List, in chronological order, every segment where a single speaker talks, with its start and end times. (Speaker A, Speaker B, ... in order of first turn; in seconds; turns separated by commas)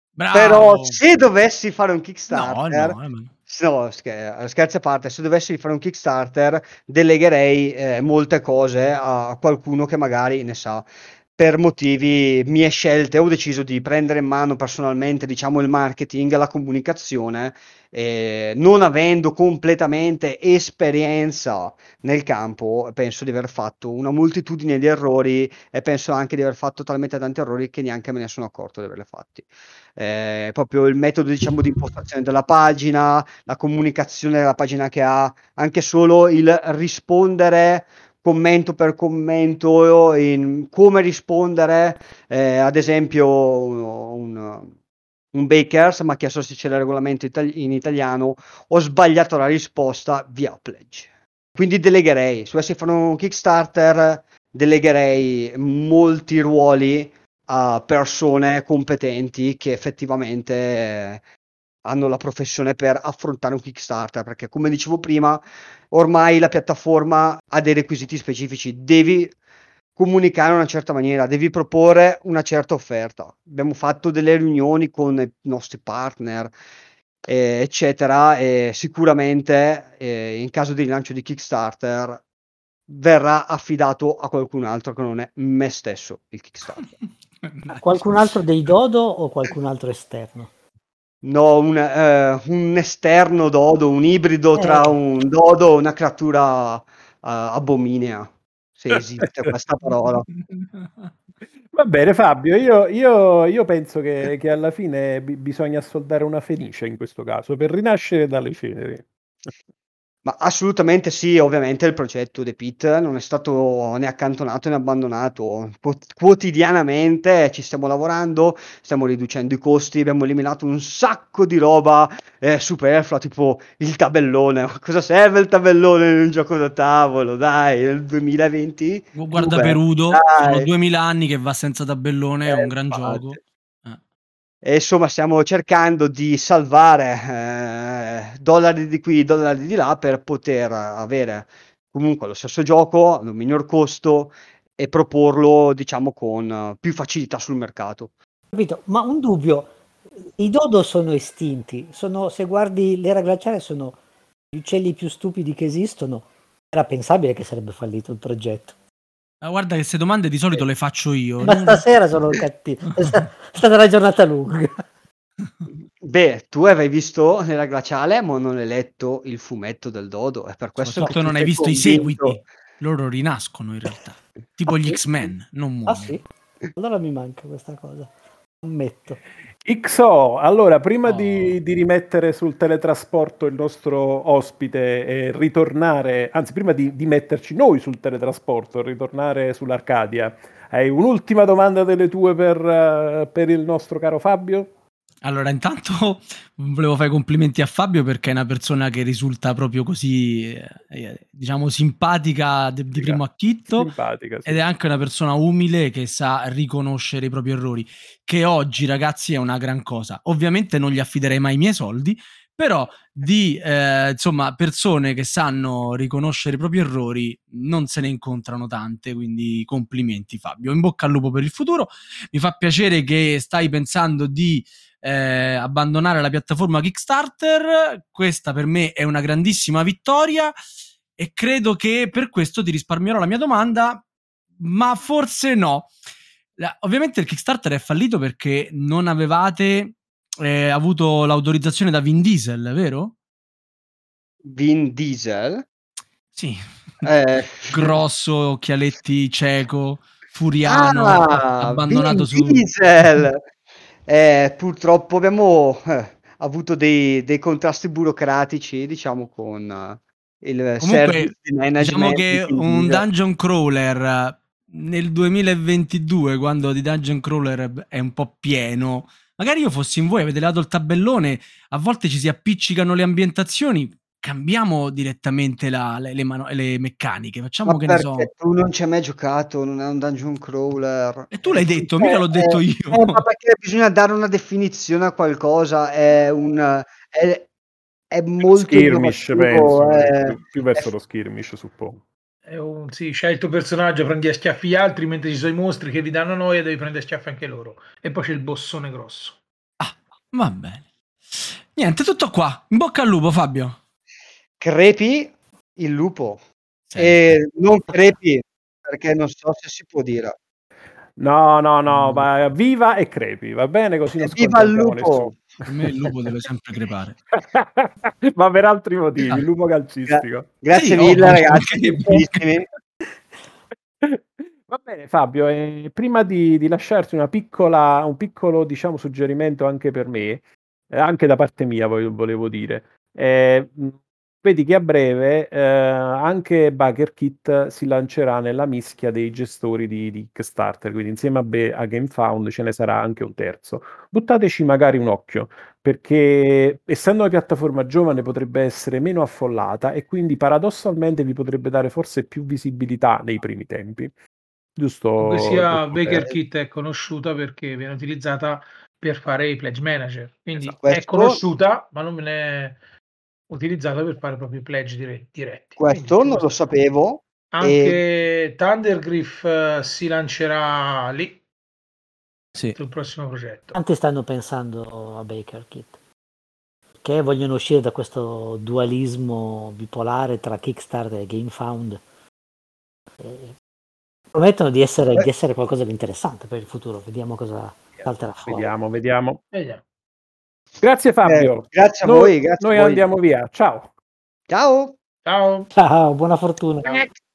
Speaker A: 0.2-1.0, Speaker B: 0.3-3.0, Speaker A: 2.3-3.3, Speaker B: 3.5-44.7, Speaker B: 45.3-61.2, Speaker B: 61.9-69.3, Speaker B: 70.0-76.5, Speaker B: 77.3-82.2, Speaker B: 82.9-86.9, Speaker A: 87.4-87.8, Speaker C: 87.8-90.5, Speaker B: 91.2-100.3, Speaker C: 94.5-94.9, Speaker D: 101.7-109.0, Speaker B: 110.2-130.7, Speaker A: 129.2-134.0, Speaker B: 132.4-133.3, Speaker B: 134.6-148.1, Speaker C: 148.5-149.7, Speaker C: 150.4-154.0, Speaker C: 154.5-158.7, Speaker A: 159.4-161.8, Speaker C: 161.4-164.8, Speaker B: 166.0-172.4, Speaker A: 170.8-176.2, Speaker C: 175.9-176.2, Speaker C: 176.8-178.1, Speaker C: 178.6-179.2, Speaker D: 179.6-194.7, Speaker A: 181.1-181.6, Speaker A: 195.2-203.9, Speaker D: 202.9-204.6, Speaker A: 204.4-230.5, Speaker A: 231.2-234.0, Speaker A: 234.6-235.9, Speaker A: 236.6-243.1, Speaker B: 244.4-245.6, Speaker A: 246.3-246.6, Speaker B: 247.0-247.9, Speaker A: 247.7-252.7, Speaker B: 250.7-253.4, Speaker B: 254.1-263.0, Speaker A: 260.8-278.3, Speaker B: 277.7-287.5, Speaker A: 281.4-283.2, Speaker B: 288.1-290.9, Speaker D: 288.6-292.0, Speaker E: 292.5-299.4, Speaker A: 299.8-303.8, Speaker B: 304.6-306.4, Speaker A: 306.9-307.2, Speaker B: 307.0-310.3, Speaker D: 311.2-315.4, Speaker A: 311.9-312.3, Speaker B: 314.2-315.4, Speaker A: 315.7-317.2, Speaker D: 317.4-320.5, Speaker B: 320.1-322.7, Speaker A: 320.7-322.4, Speaker D: 324.0-354.1, Speaker D: 354.8-356.3, Speaker E: 355.2-362.8, Speaker B: 360.8-361.4, Speaker E: 363.5-366.6, Speaker B: 365.8-368.0, Speaker E: 367.5-371.4, Speaker E: 372.8-373.7, Speaker C: 373.7-375.9, Speaker C: 377.0-382.0, Speaker C: 383.2-383.5, Speaker C: 384.3-388.7, Speaker D: 388.4-389.4, Speaker E: 389.5-389.8, Speaker D: 390.8-393.9, Speaker B: 391.2-393.0, Speaker B: 394.5-395.0, Speaker E: 395.2-395.7, Speaker C: 395.7-397.1